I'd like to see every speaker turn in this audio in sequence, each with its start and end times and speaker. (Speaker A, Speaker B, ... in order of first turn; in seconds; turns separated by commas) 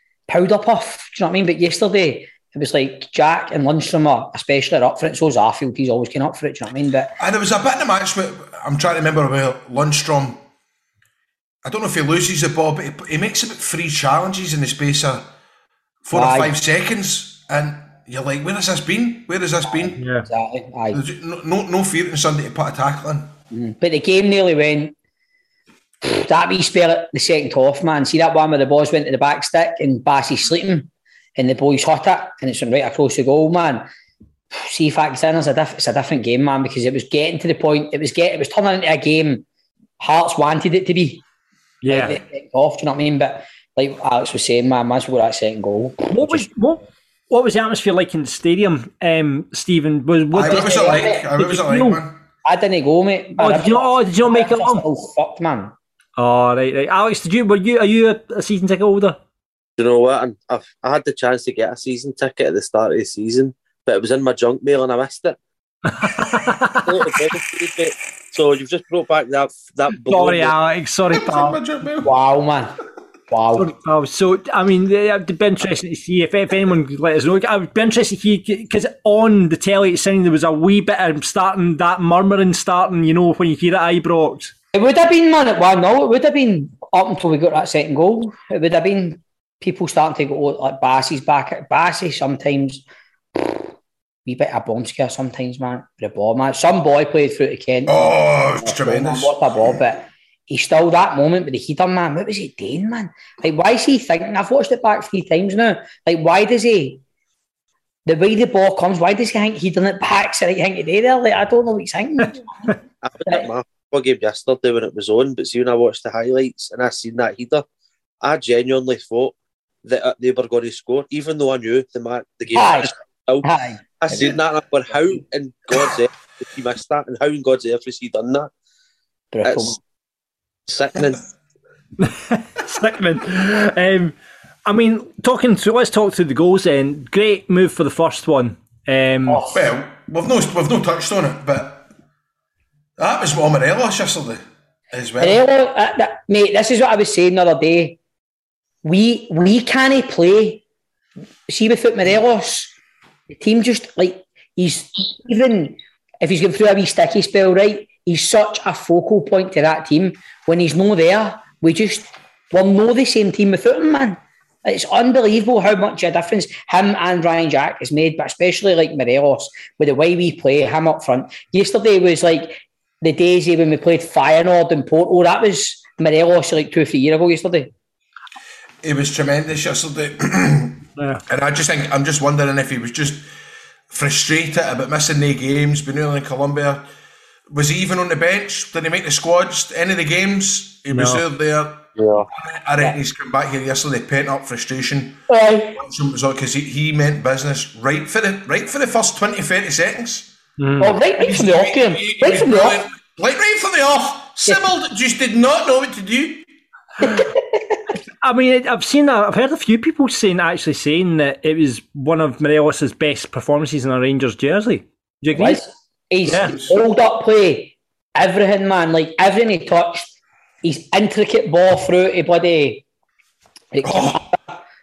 Speaker A: 0.3-7.1, Speaker B: 7.2-10.4, Speaker B: 11.7-15.3, Speaker B: 16.0-20.0, Speaker A: 16.1-16.5, Speaker A: 19.7-21.0, Speaker C: 20.0-20.3, Speaker B: 20.9-23.4, Speaker A: 23.5-24.9, Speaker A: 26.0-33.9, Speaker A: 34.5-39.5, Speaker A: 40.0-41.2, Speaker C: 41.8-42.2, Speaker A: 41.9-46.5, Speaker C: 46.1-52.0, Speaker B: 50.3-52.2, Speaker A: 50.4-51.3, Speaker A: 52.5-55.7, Speaker C: 53.4-54.9, Speaker C: 56.2-59.2, Speaker D: 59.8-65.4, Speaker C: 65.9-67.1, Speaker D: 66.8-70.5, Speaker C: 69.9-71.6, Speaker B: 71.1-72.1, Speaker A: 72.0-72.8, Speaker A: 73.3-73.7, Speaker C: 73.5-84.5, Speaker A: 84.7-92.8, Speaker A: 93.4-93.7, Speaker A: 94.2-107.0, Speaker B: 97.9-99.7, Speaker A: 108.1-112.8, Speaker D: 113.0-117.7, Speaker D: 118.2-123.5, Speaker A: 122.5-124.4, Speaker D: 124.0-128.5, Speaker A: 129.3-129.8, Speaker D: 129.4-129.8, Speaker D: 130.7-131.3, Speaker C: 132.0-139.4, Speaker A: 139.3-139.6, Speaker B: 139.5-141.9, Speaker B: 143.0-145.4, Speaker A: 145.2-148.0, Speaker A: 148.8-150.6, Speaker A: 151.5-152.8, Speaker A: 153.3-177.7, Speaker B: 178.8-183.3, Speaker C: 181.0-181.2, Speaker B: 183.9-186.8, Speaker B: 187.5-195.2, Speaker C: 190.9-191.2, Speaker D: 192.0-192.3, Speaker A: 195.3-195.8, Speaker B: 195.7-200.3, Speaker C: 200.6-201.0, Speaker A: 200.8-202.8, Speaker B: 201.2-206.5, Speaker A: 207.0-207.3, Speaker C: 208.2-215.6, Speaker A: 215.3-222.8, Speaker C: 216.3-216.6, Speaker B: 216.3-216.8, Speaker A: 223.7-224.4, Speaker B: 223.8-224.2